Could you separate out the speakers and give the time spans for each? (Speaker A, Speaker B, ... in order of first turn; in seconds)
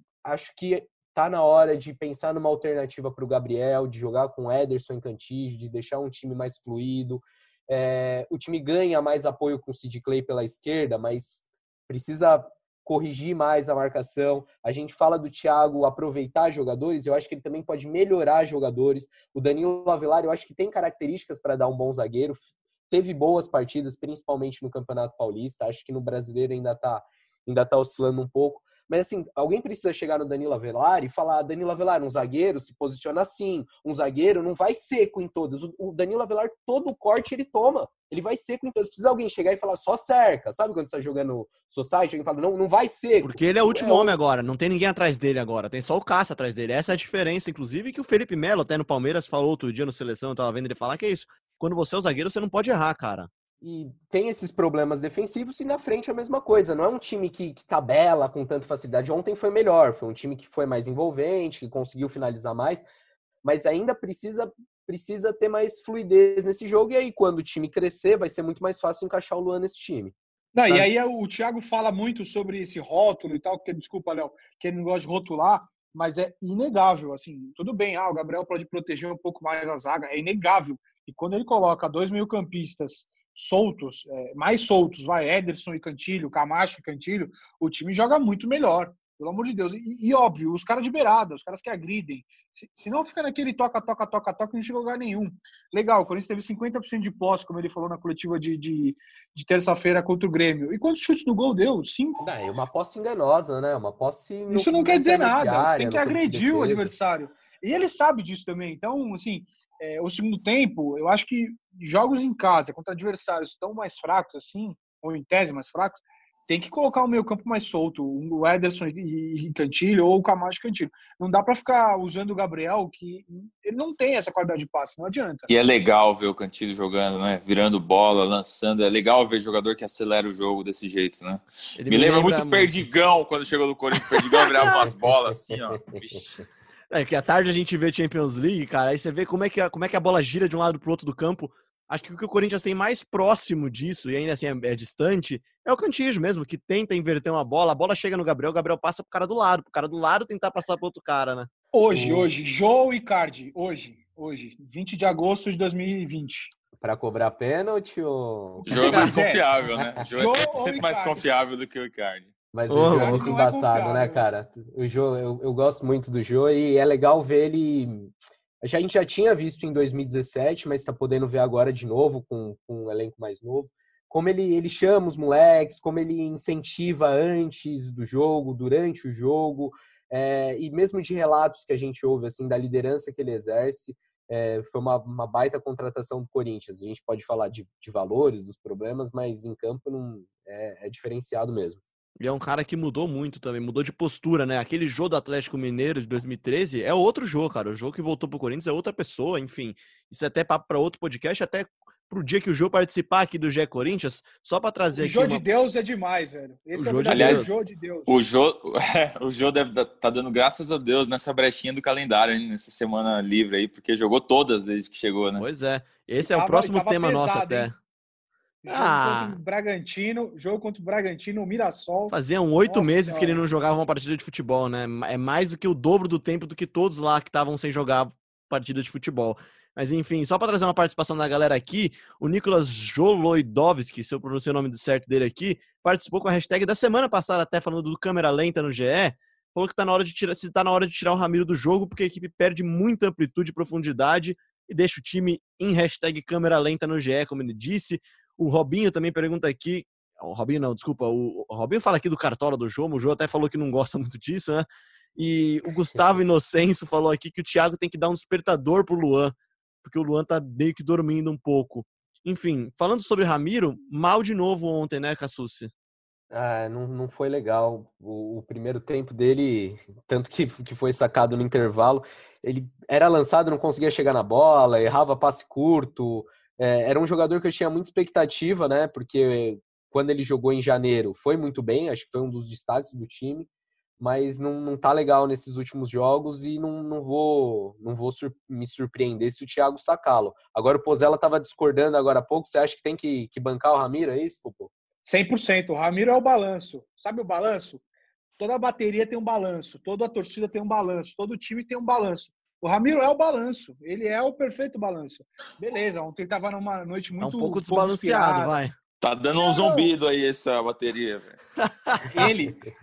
Speaker A: 0.2-44.2, 53.6-62.9, 63.4-70.1, 102.2-106.9, 134.6-136.4, 151.9-152.3, 156.8-158.7, 162.5-191.8, 266.3-283.5, 284.0-294.7
Speaker B: 43.2-53.3, 131.8-132.8, 136.9-151.5, 158.7-159.1, 162.7-163.2, 192.2-205.4, 206.8-207.6, 215.4-217.7, 218.7-219.4, 222.1-254.7, 255.2-265.7, 307.2-308.7, 311.9-312.3
Speaker C: 70.5-102.2, 104.5-125.5, 151.7-156.5, 158.7-159.5, 160.2-161.2, 162.8-164.2, 204.9-208.1, 216.2-217.7, 218.6-223.4, 295.0-297.8, 298.4-308.6, 309.4-309.9, 312.1-312.6
Speaker D: 125.5-136.2, 158.7-162.3, 207.1-207.5, 208.1-215.4, 309.0-311.4